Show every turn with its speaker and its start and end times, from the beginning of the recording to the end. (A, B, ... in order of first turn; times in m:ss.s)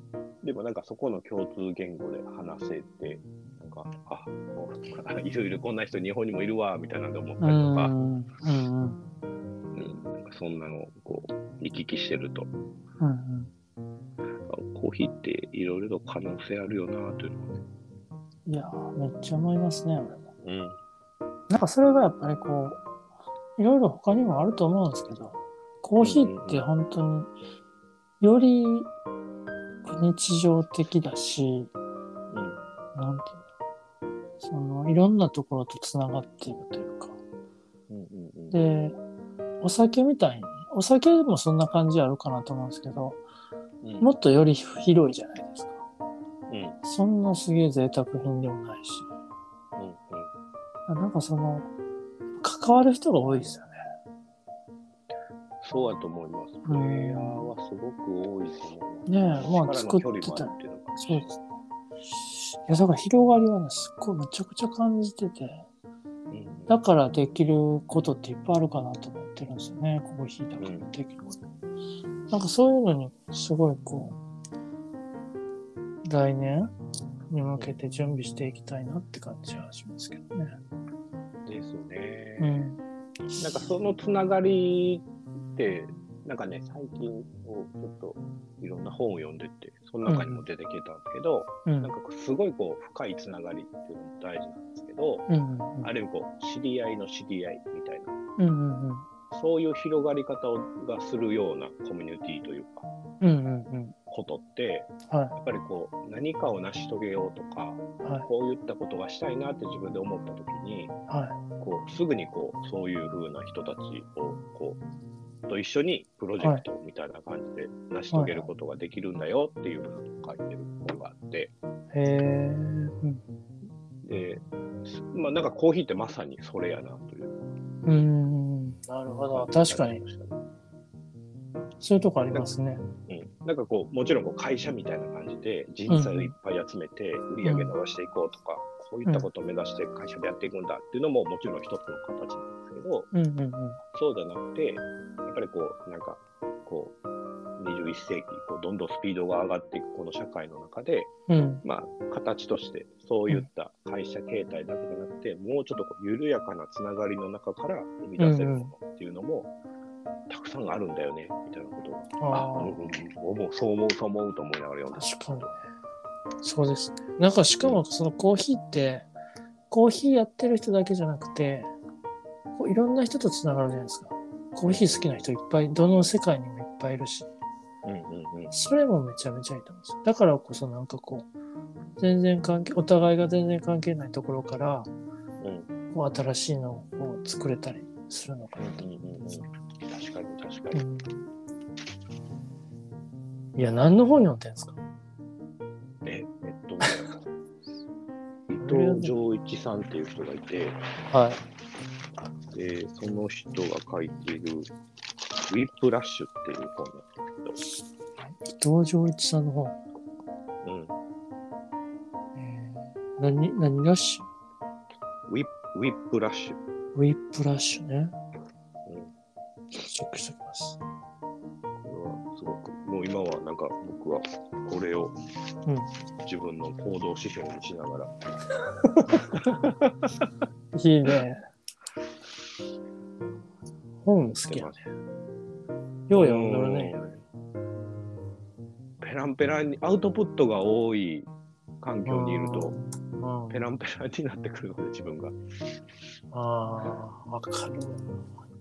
0:00.4-0:07.9 A
0:07.4-0:09.0 B
0:09.7-0:12.5 A
0:13.0-0:13.5 B
0:14.5-0:17.6 A
0:18.5-0:20.2 B
0:20.4-0:20.8 A
0:21.5-0:22.8 B
0:23.6-0:27.3 B
0:26.0-0:26.6 A
0:28.2-0:28.9 B
0:29.9-0:31.7 B
0:32.3-0:32.6 A
0:33.0-0:33.4 B
0:34.4-0:37.2 B
0:37.9-0:38.6 A
0:38.5-0:39.0 B
0:39.6-0:43.2 B
0:43.8-0:44.1 A
0:44.0-0:45.8 B
0:46.5-0:46.8 A
0:46.8-0:49.1 B
0:49.8-0:50.3 A
0:50.9-0:51.7 B
0:52.4-0:53.7 B
0:55.6-1:01.3 A
0:56.7-0:57.5 B
0:59.1-1:01.4 B
1:02.4-1:05.6 B
1:06.3-1:06.8 A
1:06.7-1:11.4 B
1:10.6-1:10.9 A
1:12.3-1:14.2 B
1:16.1-1:16.7 B
1:17.3-1:20.5 B
1:21.5-1:22.7 A
1:22.4-1:22.8 B
1:23.4-1:35.2 A
1:30.1-1:30.4 B
1:31.7-1:31.9 B
1:35.3-1:35.9 B
1:35.8-1:38.1 A
1:38.4-1:39.1 B
1:39.3-1:42.8 A
1:43.2-1:44.0 B
1:44.1-1:50.9 A
1:45.1-1:45.4 B
1:48.0-1:48.3 B
1:51.1-1:51.4 B
1:51.6-1:54.8 A
1:55.5-2:01.5 A
1:58.1-1:58.5 B
2:01.9-2:03.2 B
2:04.0-2:07.5 A
2:07.9-2:10.0 B
2:09.3-2:10.4 A
2:11.8-2:12.8 B
2:13.1-2:23.1 A
2:15.9-2:16.3 B
2:17.4-2:17.8 B
2:23.1-2:23.8 B
2:23.9-2:27.0 A
2:27.6-2:31.1 A
2:31.3-2:31.6 B
2:31.6-2:39.5 A
2:38.2-2:38.7 B
2:40.3-2:45.5 A
2:42.2-2:42.8 B
2:44.9-2:45.5 B
2:46.4-2:49.1 B
2:49.7-2:51.7 B
2:52.6-2:57.3 B
2:54.7-2:55.2 A
2:57.8-2:58.5 A
2:58.5-3:01.3 B
3:02.0-3:04.9 B
3:05.4-3:05.7 A
3:05.9-3:08.8 B
3:08.6-3:10.8 A
3:10.7-3:11.2 B
3:13.6-3:14.8 B
3:16.0-3:17.2 A
3:18.5-3:20.8 A
3:18.6-3:19.1 B
3:21.1-3:21.4 B
3:22.5-3:24.7 A
3:25.5-3:27.6 A
3:28.2-3:29.8 B
3:30.6-3:30.9 A
3:32.4-3:34.3 B
3:35.3-3:36.6 A
3:37.0-3:38.1 B
3:38.9-3:39.1 A
3:39.8-3:40.8 B
3:41.8-3:45.2 A
3:46.2-3:48.1 A
3:49.3-3:50.3 A
3:50.7-3:51.4 B
3:54.0-3:54.8 B
3:54.4-3:54.8 A
3:56.1-3:57.0 B
3:56.1-3:57.2 A
3:59.0-4:01.3 A
4:01.8-4:02.8 A
4:02.1-4:03.7 B
4:03.5-4:05.4 A
4:06.3-4:08.1 B